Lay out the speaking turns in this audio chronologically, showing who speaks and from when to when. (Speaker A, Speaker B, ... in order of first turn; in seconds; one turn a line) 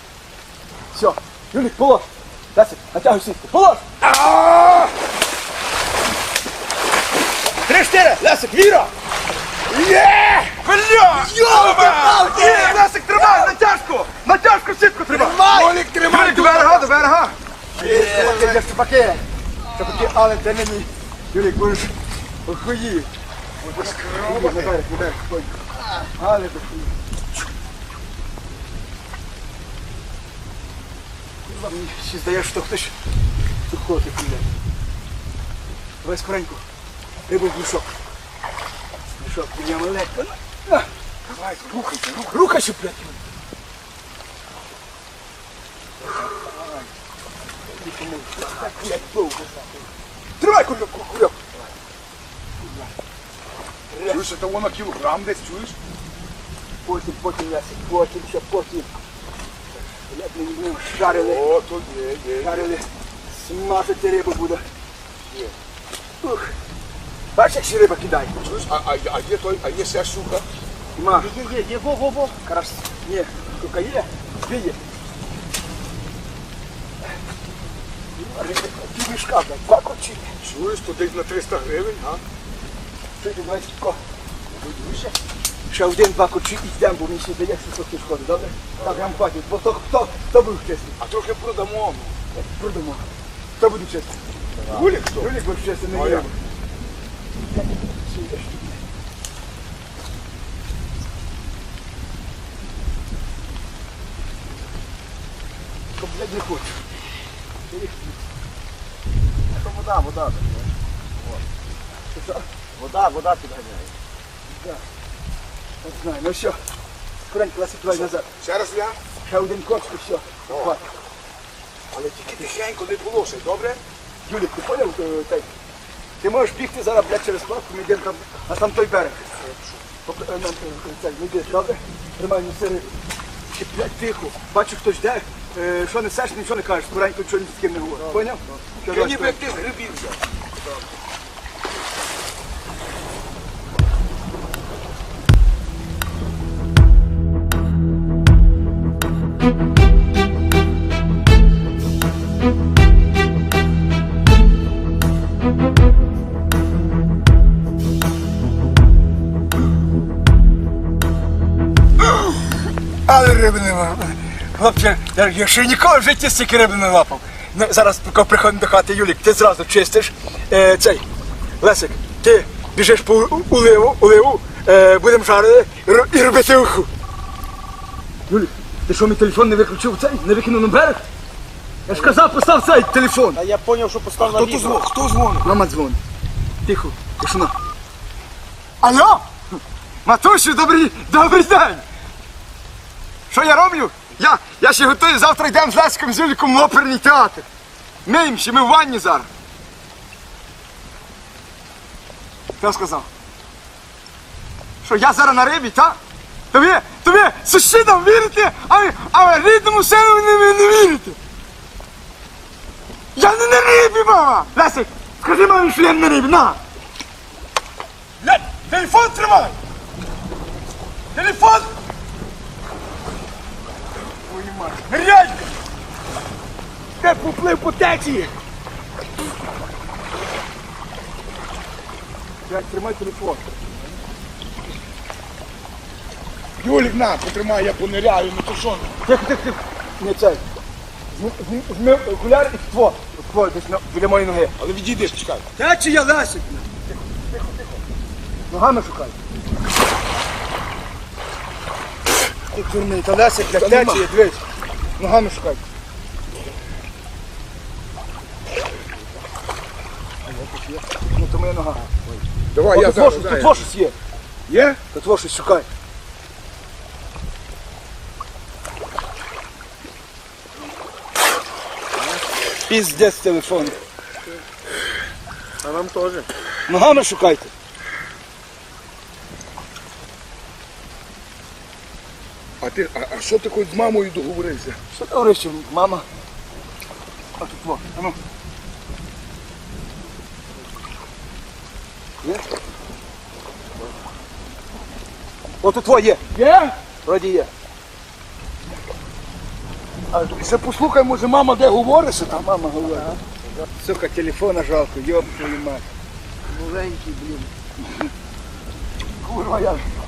Speaker A: 0.9-3.9
Speaker B: 4.0-4.9
Speaker A: 7.6-8.9
Speaker B: 9.7-12.8
Speaker A: 11.0-21.9
Speaker C: 11.3-12.6
Speaker B: 15.1-17.1
Speaker C: 15.3-15.8
Speaker C: 17.8-18.5
Speaker B: 17.8-18.6
Speaker A: 22.4-23.1
Speaker B: 23.6-24.8
Speaker A: 23.7-26.9
Speaker A: 31.4-32.9
Speaker A: 33.7-34.5
Speaker A: 36.0-36.6
Speaker A: 37.3-37.9
Speaker A: 39.2-40.9
Speaker B: 41.2-42.4
Speaker A: 42.0-43.2
Speaker A: 47.7-49.6
Speaker A: 50.4-51.5
Speaker A: 52.6-52.9
Speaker A: 53.9-54.3
Speaker B: 54.1-55.8
Speaker A: 56.8-58.9
Speaker A: 60.1-61.5
Speaker B: 61.0-62.7
Speaker A: 62.4-64.6
Speaker B: 65.3-65.5
Speaker A: 66.2-66.5
Speaker A: 67.3-68.3
Speaker B: 68.4-70.5
Speaker A: 71.0-71.3
Speaker C: 71.2-72.4
Speaker A: 72.4-74.8
Speaker A: 78.1-80.3
Speaker B: 80.4-82.2
Speaker A: 83.2-84.0
Speaker B: 84.5-85.2
Speaker A: 85.7-91.0
Speaker B: 88.8-89.2
Speaker B: 91.0-92.1
Speaker A: 92.3-94.2
Speaker B: 94.5-95.3
Speaker A: 94.7-96.4
Speaker B: 95.9-96.3
Speaker A: 97.5-98.8
Speaker A: 106.0-106.8
Speaker A: 107.7-108.2
Speaker C: 109.5-110.7
Speaker A: 112.1-112.5
Speaker C: 112.8-113.9
Speaker A: 115.8-116.6
Speaker A: 117.2-118.3
Speaker B: 117.9-119.0
Speaker A: 119.2-120.9
Speaker B: 120.5-120.8
Speaker B: 121.9-123.8
Speaker A: 124.2-125.5
Speaker A: 126.2-129.3
Speaker B: 129.5-129.7
Speaker A: 130.1-133.0
Speaker A: 133.5-139.4
Speaker B: 138.9-140.2
Speaker A: 163.1-171.0
Speaker A: 171.6-176.9
Speaker A: 178.3-181.1
Speaker A: 181.9-183.4
Speaker C: 183.3-184.8
Speaker B: 184.2-185.5
Speaker A: 185.4-186.0
Speaker A: 186.6-187.5
Speaker A: 188.8-189.4
Speaker A: 190.0-191.8
Speaker A: 193.3-197.5
Speaker A: 198.0-199.3
Speaker A: 202.6-203.1
Speaker A: 204.8-206.0
Speaker A: 206.5-211.2
Speaker A: 213.1-216.6
Speaker A: 218.2-219.5
Speaker A: 221.1-221.7
Speaker A: 224.2-225.5
Speaker A: 227.0-228.3
Speaker A: 232.5-233.5
Speaker B: 236.6-238.9
Speaker A: 239.0-240.4
Speaker A: 241.1-244.5
Speaker B: 244.6-245.4
Speaker A: 245.5-246.8
Speaker A: 247.3-247.7
Speaker A: 248.5-249.2
Speaker A: 252.5-254.4
Speaker B: 253.5-254.1
Speaker A: 255.0-255.6
Speaker A: 260.2-262.2
Speaker B: 262.5-263.7
Speaker A: 262.7-263.9
Speaker B: 264.5-264.8
Speaker A: 264.9-265.7
Speaker A: 272.6-273.8
Speaker C: 275.6-276.3
Speaker A: 276.7-277.5
Speaker B: 282.6-284.8
Speaker A: 284.9-286.1
Speaker A: 287.4-288.2
Speaker A: 295.6-297.5
Speaker B: 300.1-302.4
Speaker A: 302.2-303.2
Speaker A: 303.8-305.9
Speaker C: 306.5-307.5
Speaker A: 309.2-309.9